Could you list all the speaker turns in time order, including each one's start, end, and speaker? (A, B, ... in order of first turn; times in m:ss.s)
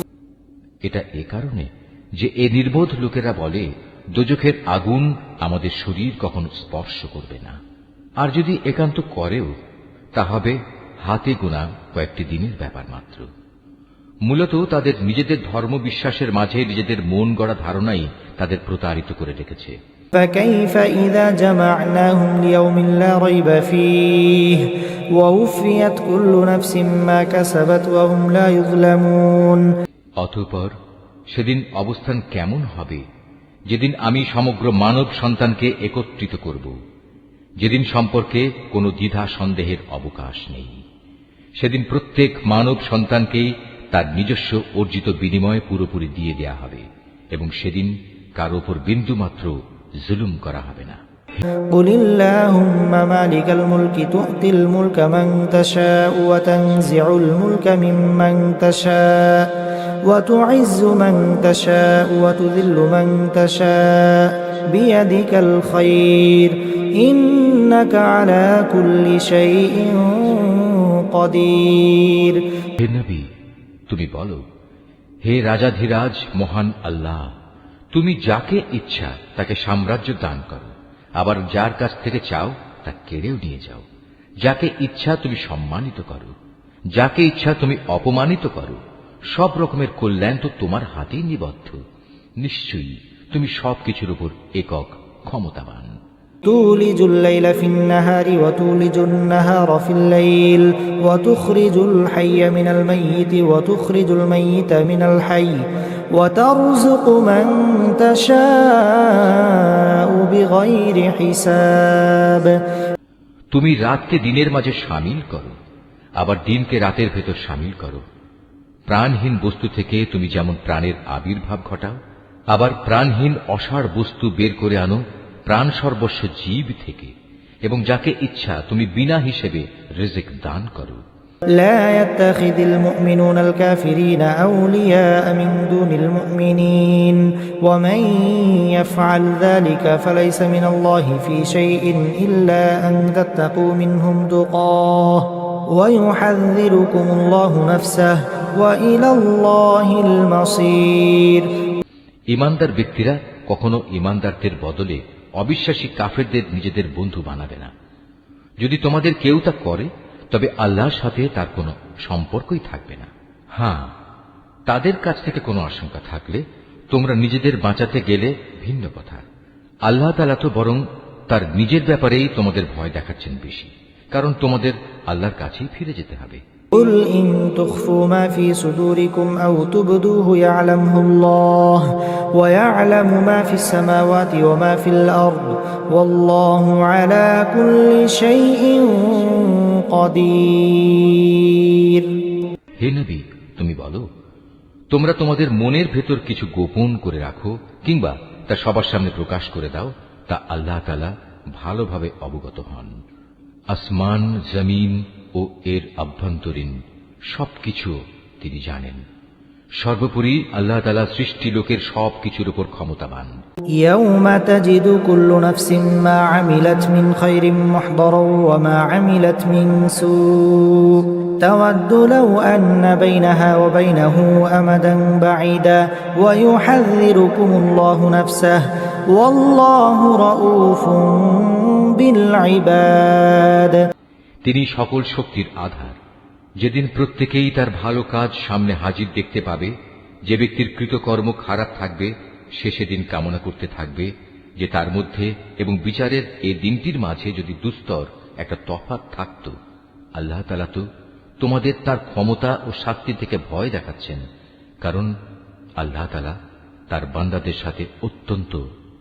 0:00.9-0:07.6 A
0:08.2-0:09.5 A
0:10.2-0:13.3 A
0:14.3-0:19.8 A
0:20.1-0:29.7 B
0:30.2-0:30.7 A
0:31.3-0:33.0 A
0:33.7-0:36.7 A
0:37.6-0:40.8 A
0:41.6-0:51.0 A
0:51.7-0:59.5 B
1:00.0-1:12.4 B
1:12.8-1:13.3 A
1:13.9-1:14.4 A
1:15.2-1:17.3 A
1:17.9-1:23.8 A
1:24.4-1:26.3 A
1:27.0-1:28.8 A
1:29.3-1:31.8 A
1:32.4-1:35.9 A
1:36.4-1:45.6 B
1:46.2-1:52.6 B
1:53.5-1:55.6 A
1:56.2-1:58.0 A
1:58.9-2:02.0 A
2:02.5-2:07.1 A
2:07.7-2:11.0 A
2:11.6-2:31.5 B
2:32.3-2:37.7 A
2:38.6-2:43.9 A
2:44.7-2:49.2 A
2:49.9-2:56.4 A
2:56.7-3:12.1 B
3:12.8-3:14.0 A
3:14.9-3:22.9 A
3:23.7-3:26.8 A
3:27.3-3:29.0 A
3:29.8-3:33.3 A
3:33.8-3:53.8 B
3:54.4-3:56.0 A
3:56.6-3:59.7 A
4:00.3-4:09.5 A
4:10.2-4:10.8 A
4:11.4-4:14.2 A
4:14.8-4:15.1 A
4:15.8-4:16.4 A
4:16.9-4:18.6 A